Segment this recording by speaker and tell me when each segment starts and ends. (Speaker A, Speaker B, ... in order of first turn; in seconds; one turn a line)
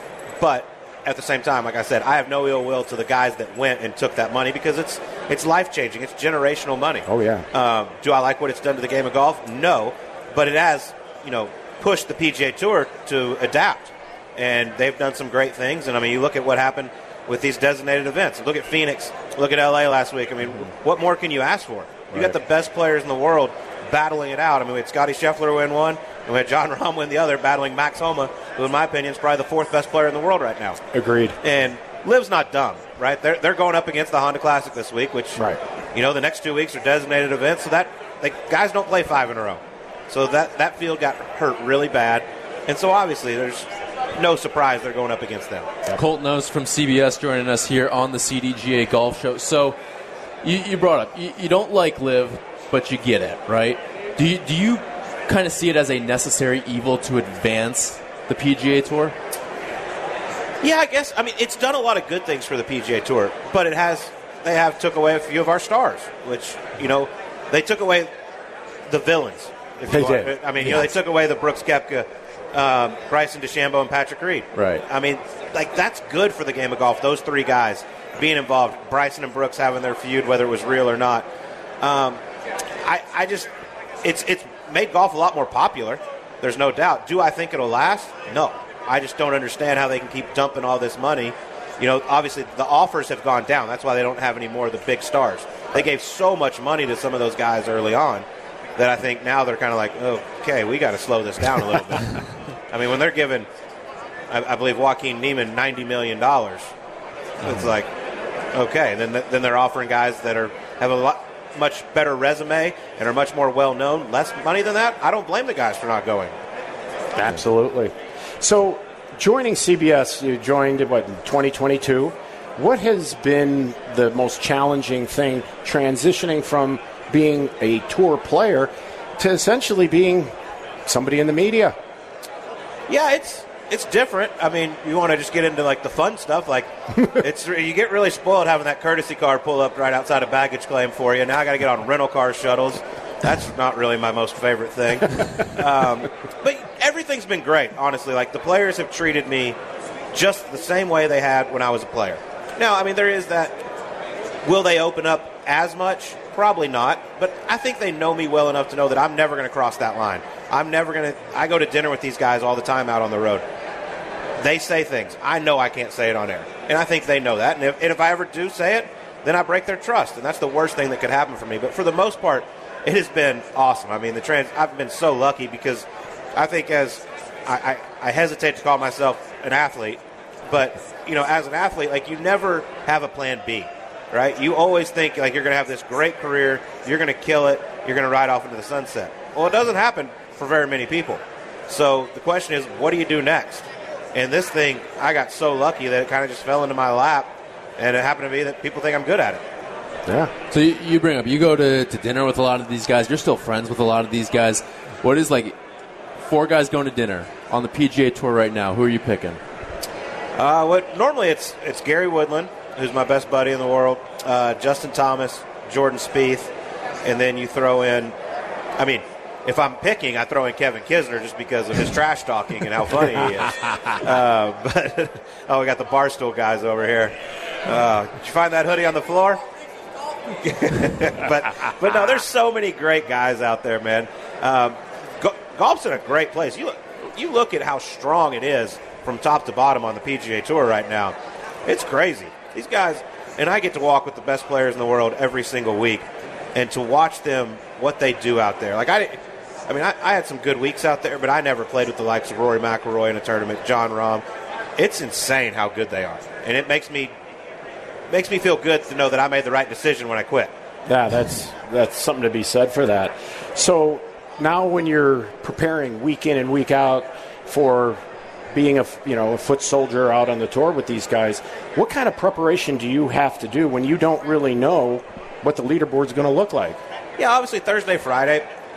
Speaker A: 0.4-30.8
Speaker B: 7.0-7.5
Speaker B: 30.9-31.4
Speaker A: 31.4-35.4
Speaker A: 35.9-45.8
Speaker C: 45.9-49.8
Speaker C: 50.4-59.1
Speaker A: 60.6-68.1
Speaker A: 68.9-81.3
Speaker B: 69.9-70.3
Speaker C: 74.5-74.8
Speaker A: 81.8-82.2
Speaker A: 82.8-83.5
Speaker A: 84.0-98.2
Speaker A: 98.8-103.5
Speaker A: 104.3-106.7
Speaker A: 107.4-107.9
Speaker A: 108.5-116.4
Speaker B: 117.1-130.3
Speaker B: 130.8-131.7
Speaker A: 132.9-149.6
Speaker A: 150.1-153.6
Speaker A: 154.4-163.4
Speaker A: 164.4-199.4
Speaker B: 200.1-200.3
Speaker C: 200.5-205.5
Speaker C: 206.2-209.4
Speaker A: 210.3-216.5
Speaker A: 217.0-218.1
Speaker A: 218.8-229.4
Speaker A: 230.4-241.1
Speaker A: 241.7-254.2
Speaker A: 254.8-257.1
Speaker A: 258.1-260.5
Speaker B: 260.9-268.0
Speaker B: 268.5-276.8
Speaker A: 277.2-278.5